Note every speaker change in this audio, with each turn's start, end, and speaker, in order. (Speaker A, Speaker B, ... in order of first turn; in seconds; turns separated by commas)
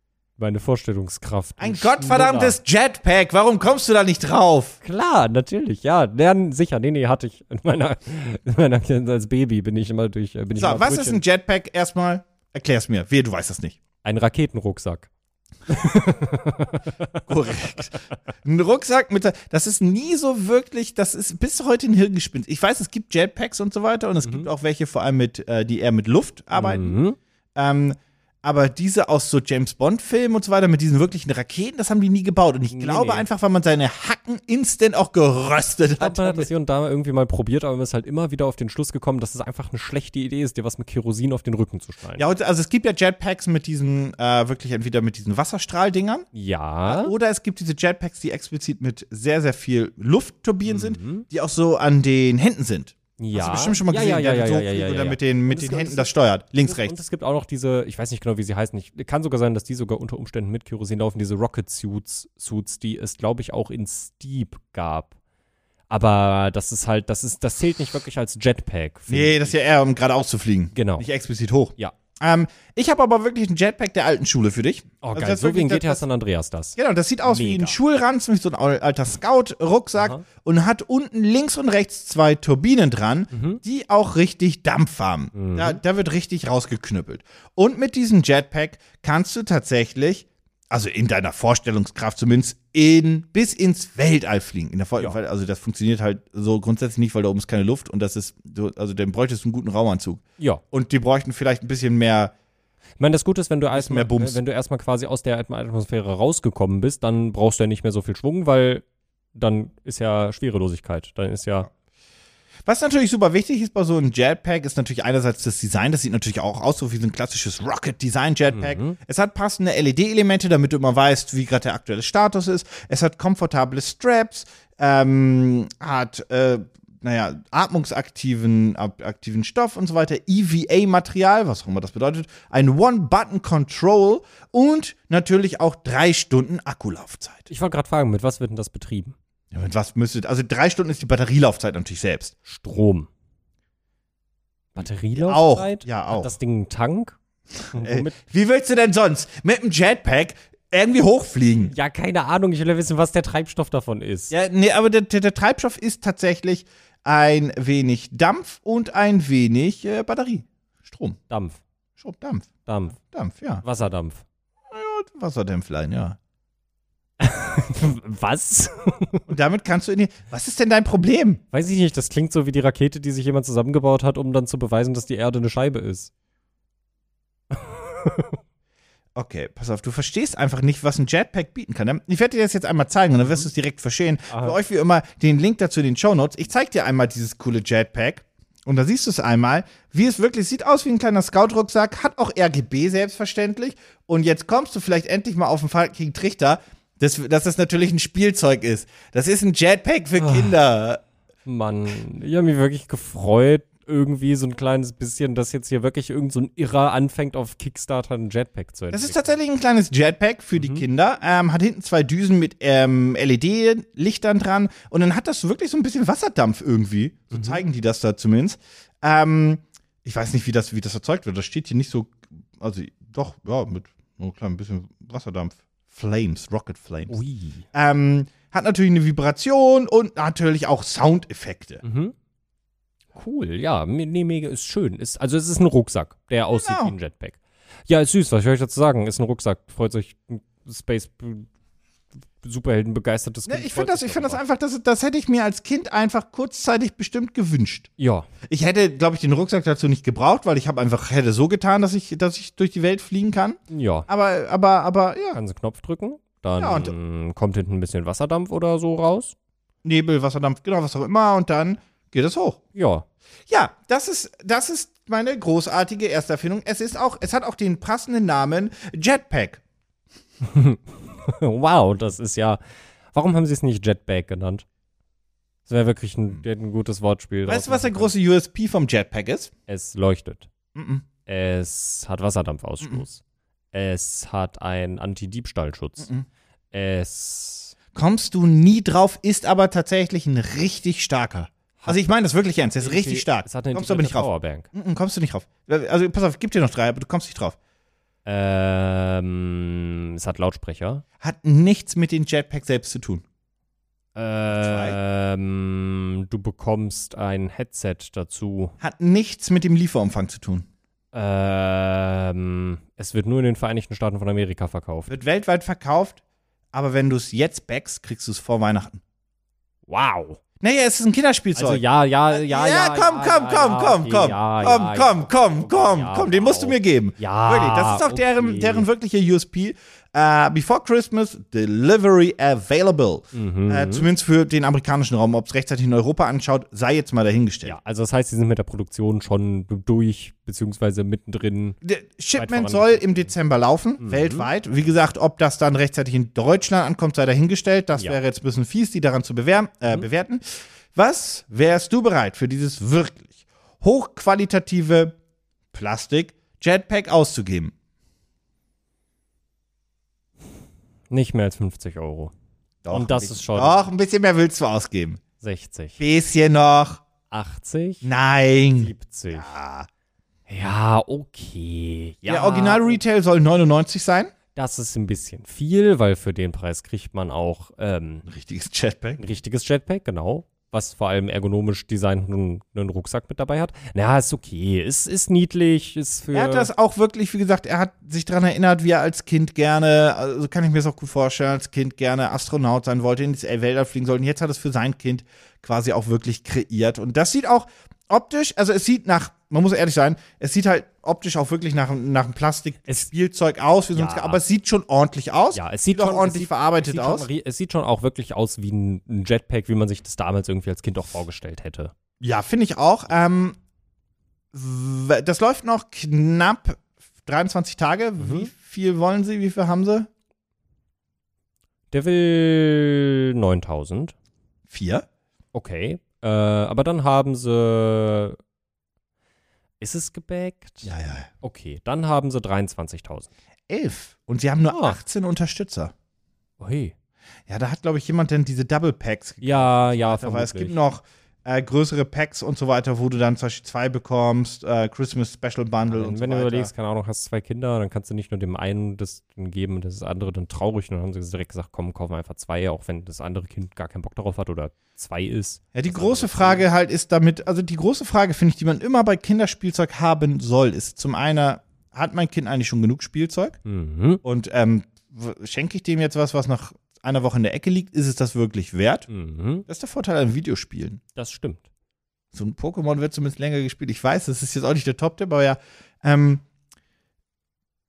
Speaker A: 0.4-2.6, Speaker B: 1.6-4.8, Speaker A: 4.8-11.2, Speaker B: 10.6-13.8, Speaker A: 14.0-15.1, Speaker A: 15.7-17.5, Speaker B: 17.3-26.9, Speaker A: 24.2-24.5, Speaker A: 26.5-27.2, Speaker B: 27.6-36.5, Speaker A: 32.7-33.2, Speaker A: 36.0-42.2, Speaker B: 42.2-46.3, Speaker A: 46.3-47.1, Speaker B: 46.8-57.0, Speaker A: 50.6-51.2, Speaker A: 53.2-65.1, Speaker A: 65.9-69.5, Speaker B: 69.1-76.0, Speaker A: 70.7-71.1, Speaker A: 75.0-77.8, Speaker B: 76.8-102.3, Speaker A: 80.0-80.2, Speaker A: 83.3-83.6, Speaker A: 85.3-85.8, Speaker A: 103.0-111.7, Speaker B: 103.7-104.4, Speaker B: 112.6-137.5, Speaker A: 118.5-119.0, Speaker A: 137.5-139.1, Speaker B: 139.5-142.3, Speaker A: 142.4-143.1, Speaker A: 144.7-147.2, Speaker B: 145.2-146.3, Speaker A: 147.7-148.2, Speaker B: 147.7-151.7, Speaker A: 151.7-154.3, Speaker B: 154.3-161.2, Speaker A: 161.3-161.6, Speaker B: 162.0-163.6, Speaker A: 162.7-163.0, Speaker A: 163.6-164.2, Speaker B: 164.7-166.2, Speaker A: 167.2-169.3, Speaker B: 169.3-171.4, Speaker A: 171.5-176.1, Speaker A: 177.5-178.4, Speaker B: 179.1-201.0, Speaker A: 184.3-184.6, Speaker A: 200.2-200.5, Speaker A: 201.4-209.3, Speaker B: 208.9-227.2, Speaker A: 210.6-210.8, Speaker A: 217.3-217.6, Speaker A: 227.1-227.6, Speaker B: 227.7-231.8, Speaker A: 231.8-232.1, Speaker A: 233.2-241.5, Speaker B: 236.5-236.9, Speaker A: 242.4-244.4, Speaker B: 243.5-247.9, Speaker A: 248.0-248.3, Speaker B: 248.4-255.4, Speaker A: 253.7-254.1, Speaker A: 255.3-259.3, Speaker B: 256.6-256.9, Speaker B: 259.8-262.6, Speaker A: 262.7-263.0, Speaker B: 263.5-269.6, Speaker A: 270.4-272.6, Speaker A: 273.1-274.6, Speaker A: 275.7-278.1, Speaker B: 277.5-279.5, Speaker A: 279.7-280.5, Speaker B: 280.7-281.0, Speaker A: 281.2-283.2, Speaker A: 283.7-286.1, Speaker A: 286.7-287.7, Speaker B: 287.9-297.6, Speaker A: 291.8-292.1, Speaker A: 292.8-294.7, Speaker A: 298.2-301.0, Speaker B: 301.2-303.2, Speaker A: 304.1-308.7, Speaker B: 304.5-305.0, Speaker B: 308.8-310.7, Speaker A: 311.1-315.1, Speaker B: 315.1-316.2, Speaker B: 316.7-319.0, Speaker A: 319.9-320.4, Speaker B: 320.6-337.8, Speaker A: 321.6-328.9, Speaker A: 333.3-334.1, Speaker A: 337.6-341.8, Speaker B: 341.8-355.1, Speaker A: 342.4-343.3, Speaker A: 344.0-344.5, Speaker B: 355.7-357.7, Speaker A: 361.1-362.3, Speaker B: 362.8-365.2, Speaker A: 362.9-363.9, Speaker A: 365.4-366.0, Speaker B: 366.0-367.0, Speaker A: 367.3-368.1, Speaker B: 368.0-369.9, Speaker A: 368.8-369.5, Speaker A: 370.5-373.0, Speaker B: 372.2-374.3, Speaker A: 374.5-378.3, Speaker B: 378.2-379.2, Speaker A: 379.2-386.7, Speaker B: 386.3-407.3, Speaker A: 403.9-404.4, Speaker A: 405.5-411.9, Speaker B: 412.2-413.6, Speaker B: 414.5-420.1, Speaker A: 418.2-418.5, Speaker A: 421.9-424.1, Speaker B: 424.7-425.0, Speaker A: 425.5-428.4, Speaker A: 429.8-433.3, Speaker B: 430.8-431.3, Speaker B: 433.7-435.9, Speaker A: 434.7-435.0, Speaker A: 436.6-436.9, Speaker B: 437.5-446.7, Speaker A: 439.4-440.8, Speaker A: 445.9-456.6, Speaker B: 455.7-463.6, Speaker A: 463.6-464.2, Speaker B: 464.2-469.1, Speaker A: 469.1-469.6, Speaker B: 469.7-471.0, Speaker A: 471.1-471.6, Speaker B: 472.3-476.4